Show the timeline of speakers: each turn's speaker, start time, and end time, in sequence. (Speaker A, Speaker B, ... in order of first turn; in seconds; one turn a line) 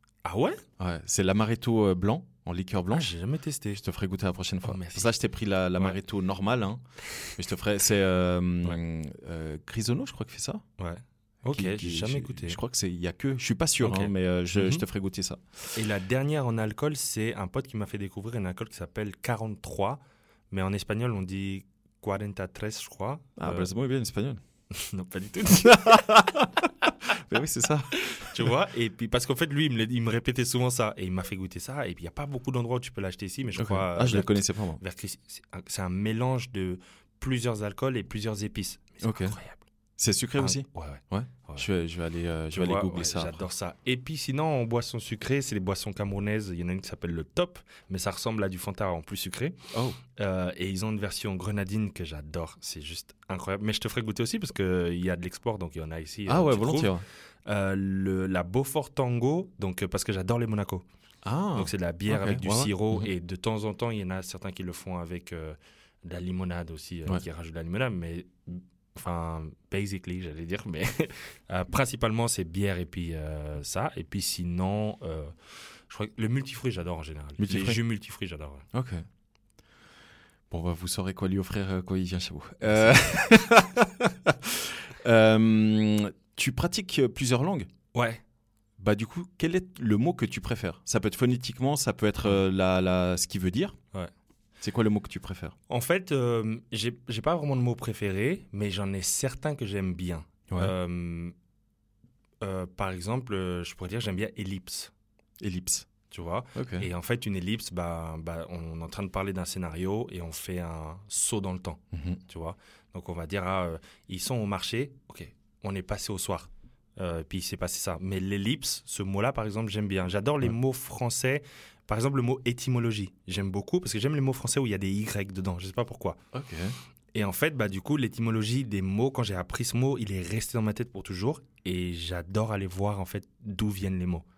Speaker A: 0.2-0.6
Speaker B: 0.8-3.1
Speaker A: 2.9-3.8
Speaker B: 3.8-10.6
Speaker A: 4.6-5.1
Speaker A: 10.8-12.6
Speaker B: 11.5-15.8
Speaker A: 13.8-14.8
Speaker A: 15.8-23.7
Speaker B: 23.4-24.4
Speaker A: 24.7-26.1
Speaker B: 25.6-28.5
Speaker A: 28.0-39.6
Speaker B: 33.5-34.8
Speaker B: 39.0-39.4
Speaker B: 40.0-43.5
Speaker A: 40.4-41.7
Speaker A: 42.5-49.6
Speaker B: 49.7-50.0
Speaker A: 50.2-56.9
Speaker B: 56.3-57.0
Speaker A: 57.5-60.9
Speaker B: 61.2-63.1
Speaker A: 61.5-78.6
Speaker B: 77.4-77.8
Speaker B: 78.7-79.1
Speaker B: 80.5-87.7
Speaker A: 82.7-82.9
Speaker A: 87.9-88.2
Speaker B: 88.8-93.8
Speaker B: 94.6-95.5
Speaker A: 95.7-101.3
Speaker A: 102.4-104.9
Speaker B: 105.4-105.9
Speaker A: 106.1-126.2
Speaker B: 106.5-106.9
Speaker B: 111.9-112.2
Speaker B: 126.3-126.8
Speaker A: 127.1-134.3